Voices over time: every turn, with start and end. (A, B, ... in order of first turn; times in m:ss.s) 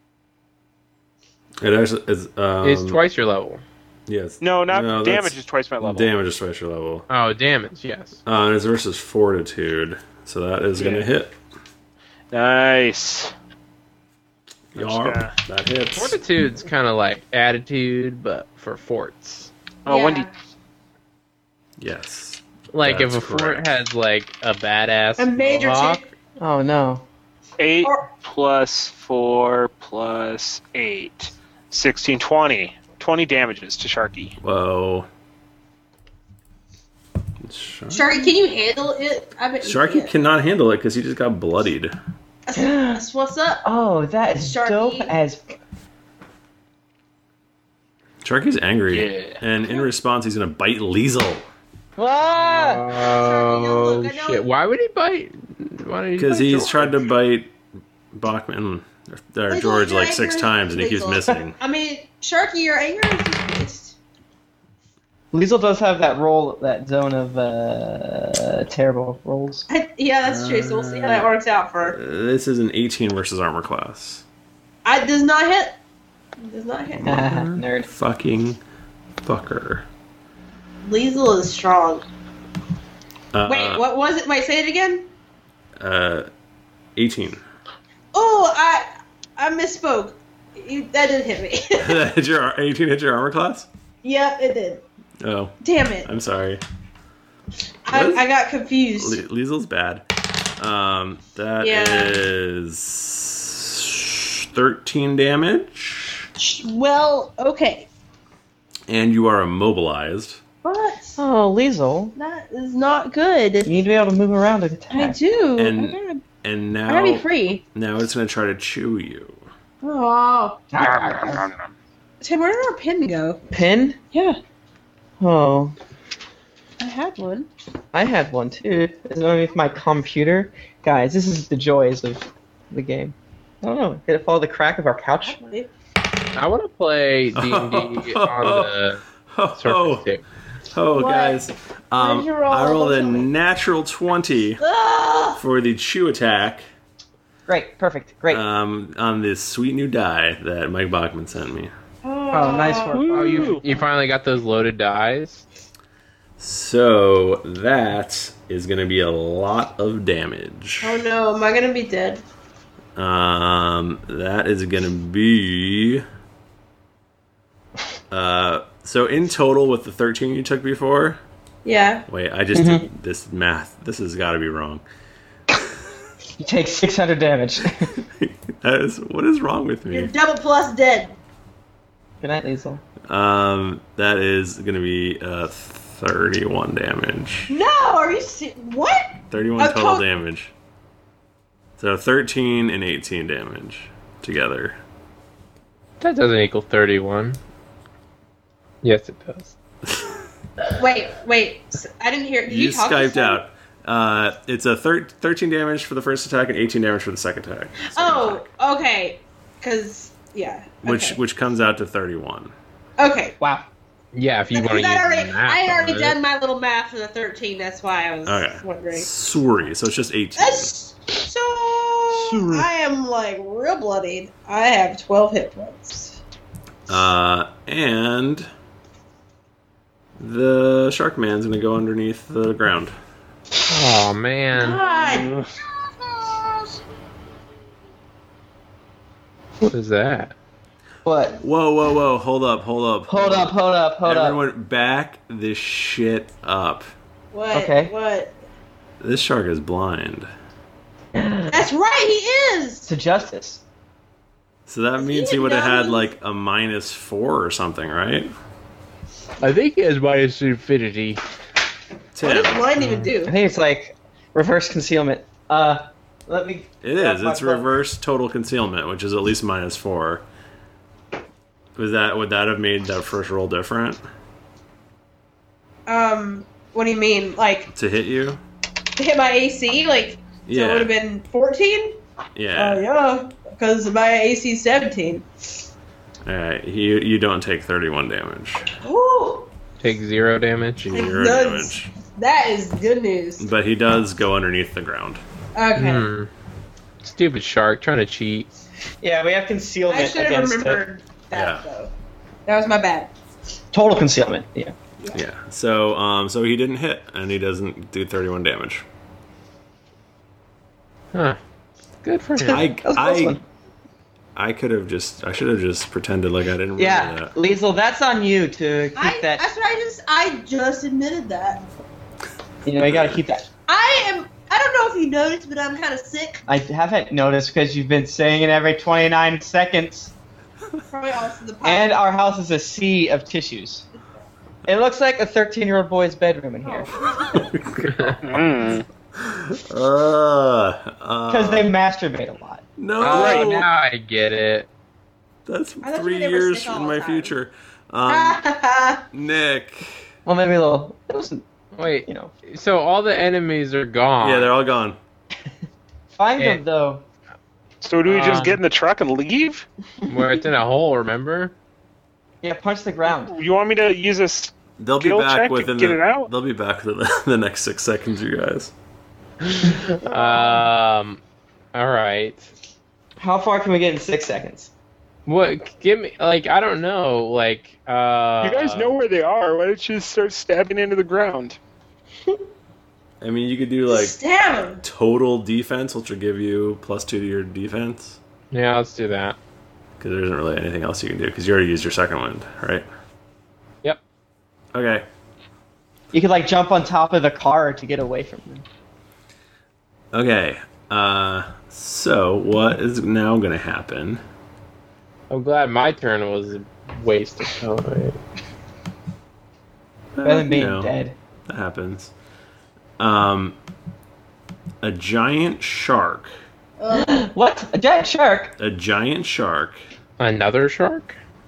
0:01.6-0:03.0 A
0:02.6-0:03.6 B
0:04.1-0:07.1 A
0:04.4-0:06.1 C
0:07.1-0:08.2 B
0:08.2-0:11.3 A
0:10.8-0:11.1 C
0:12.3-0:13.3 C
0:14.7-0:16.2 A
0:14.8-0:15.3 C
0:15.9-0:19.5 B
0:19.8-0:20.3 C
0:19.9-0:20.3 D
0:21.8-0:23.6 A
0:22.7-0:26.0 B
0:25.2-0:26.0 D
0:26.4-0:27.0 E
0:27.6-0:34.4 C
0:34.4-0:35.1 A
0:37.4-0:38.1 A
0:37.9-0:40.1 D
0:39.6-0:41.9 A
0:42.4-0:43.6 D
0:42.5-0:43.0 E
0:43.6-0:45.4 E
0:44.4-0:45.1 D
0:48.2-0:51.5 A
0:48.9-0:49.4 C
0:52.0-0:52.9 E
0:52.4-0:57.0 B
0:53.1-0:54.4 D
0:56.2-0:57.6 A
0:58.1-1:01.6 A
0:59.5-1:04.0 D
1:05.3-1:09.7 E
1:09.7-1:12.0 D
1:10.2-1:14.2 A
1:14.8-1:15.8 D
1:16.4-1:17.3 D
1:17.0-1:18.6 A
1:17.0-1:17.9 E
1:19.2-1:19.8 A
1:20.8-1:22.0 D
1:23.3-1:23.8 A
1:23.4-1:25.1 D
1:25.8-1:26.3 A
1:27.0-1:27.4 A
1:28.1-1:32.0 D
1:31.8-1:33.7 A
1:34.0-1:34.8 D
1:35.2-1:36.6 A
1:35.6-1:36.1 D
1:37.8-1:39.2 D
1:37.9-1:38.3 A
1:39.0-1:40.0 A
1:40.6-1:46.3 A
1:41.6-1:42.2 D
1:46.4-1:47.9 D
1:48.9-1:50.4 A
1:50.6-1:51.2 D
1:51.2-1:52.1 E
1:52.2-1:53.7 D
1:53.6-1:55.2 E
1:54.9-1:56.2 D
1:55.6-1:59.4 A
1:56.9-1:57.6 D
1:59.8-2:00.7 D
2:00.7-2:01.4 E
2:00.8-2:01.7 C
2:02.2-2:03.4 D
2:03.5-2:04.0 E
2:04.1-2:04.4 D
2:05.2-2:05.7 E
2:06.8-2:07.5 D
2:07.9-2:15.4 E
2:15.2-2:15.7 D
2:16.4-2:19.0 B
2:17.3-2:18.7 A
2:19.3-2:20.1 A
2:19.6-2:20.2 B
2:20.7-2:24.6 A
2:20.9-2:21.4 D
2:22.0-2:23.3 D
2:24.6-2:25.4 D
2:25.4-2:26.6 A
2:27.5-2:28.4 E
2:28.3-2:31.7 A
2:32.0-2:33.0 D
2:32.3-2:33.6 E
2:32.4-2:35.4 B
2:32.9-2:33.6 C
2:36.4-2:41.0 A
2:40.8-2:42.2 D
2:43.0-2:46.0 A
2:48.1-2:51.2 A
2:51.6-2:52.0 D
2:52.1-2:54.8 A
2:52.5-2:52.8 E
2:56.4-2:57.9 E
2:58.2-3:00.1 A
2:59.9-3:01.2 D
3:02.2-3:02.8 E
3:03.1-3:07.5 A
3:07.5-3:10.0 D
3:09.3-3:10.5 A
3:11.8-3:14.8 A
3:16.0-3:17.4 B
3:18.8-3:19.5 B
3:19.9-3:20.2 A
3:20.8-3:23.4 D
3:22.5-3:28.4 A
3:27.8-3:31.2 D
3:30.8-3:32.5 A
3:33.0-3:33.4 D
3:33.4-3:33.6 E
3:34.1-3:36.2 B
3:34.5-3:39.1 D
3:38.2-3:40.7 A
3:40.4-3:46.2 D
3:42.1-3:42.7 E
3:46.9-3:48.5 A
3:50.2-3:52.9 A
3:53.7-3:54.8 B
3:54.5-3:55.3 D
3:56.1-3:56.5 D
3:59.6-4:00.3 B
4:01.0-4:01.4 E
4:01.4-4:06.8 A
4:03.1-4:04.4 E
4:07.3-4:08.4 D
4:07.5-4:07.9 E
4:09.0-4:10.3 A
4:11.1-4:11.7 E
4:11.5-4:12.9 D
4:12.9-4:13.6 E
4:14.7-4:18.3 A
4:15.0-4:16.1 D
4:19.4-4:21.2 B
4:22.1-4:22.7 A
4:22.2-4:23.3 D
4:22.8-4:23.1 B
4:23.2-4:27.7 E
4:26.8-4:30.2 A
4:31.8-4:34.0 A
4:35.9-4:37.7 D
4:37.7-4:38.4 A
4:39.0-4:42.0 D
4:40.5-4:40.9 A
4:42.4-4:42.8 A
4:42.6-4:45.3 D
4:46.2-4:48.7 A
4:48.8-4:49.5 D
4:49.8-4:50.9 B
4:50.8-4:51.9 A
4:50.9-4:53.5 D
4:53.4-4:55.2 A
4:55.5-4:56.1 D
4:55.8-4:56.3 B
4:57.0-4:58.5 B
4:59.0-5:00.8 E
4:59.9-5:01.9 D
5:01.3-5:01.6 A
5:02.4-5:03.1 D
5:03.7-5:04.7 E
5:05.1-5:08.8 A
5:11.1-5:11.4 B
5:12.0-5:12.6 B
5:12.4-5:13.4 E
5:12.5-5:13.4 A
5:14.4-5:17.3 A
5:16.8-5:19.5 E
5:19.0-5:21.6 D
5:22.6-5:23.5 E
5:22.8-5:23.2 A
5:23.7-5:26.4 D
5:26.5-5:30.1 E
5:30.9-5:32.0 D
5:31.6-5:33.8 E
5:34.6-5:36.9 E
5:36.7-5:37.4 D
5:37.1-5:38.2 A
5:38.2-5:38.8 C
5:39.2-5:41.7 A
5:41.3-5:42.6 E
5:42.8-5:43.7 A
5:43.0-5:44.7 B
5:43.1-5:43.5 C
5:45.4-5:48.4 A
5:45.8-5:47.3 D
5:48.1-5:49.0 D
5:49.1-5:50.0 A
5:50.2-5:51.5 E
5:51.7-5:54.5 B
5:52.0-5:52.3 E
5:54.2-5:55.0 A
5:56.1-5:57.0 E
5:57.8-5:59.6 C
5:58.0-5:58.6 B
6:00.1-6:01.5 B
6:02.4-6:03.3 E
6:03.2-6:06.3 C
6:04.8-6:08.7 A
6:09.5-6:11.2 B
6:10.1-6:10.6 E
6:11.7-6:12.5 B
6:13.2-6:14.7 E
6:15.2-6:18.9 B
6:18.4-6:21.6 C
6:23.2-6:24.2 A
6:23.9-6:24.8 D
6:24.8-6:28.2 A
6:28.5-6:29.4 B
6:30.0-6:32.8 A
6:34.7-6:35.0 A
6:36.1-6:38.6 E
6:40.1-6:44.2 A
6:45.3-6:48.2 B
6:50.1-6:50.9 A
6:50.2-6:51.2 E
6:51.5-6:52.1 A
6:53.0-6:53.6 A
6:54.8-6:56.3 A
6:56.8-6:57.3 D
6:56.9-6:58.5 E
6:58.6-6:59.8 A
7:00.2-7:01.2 B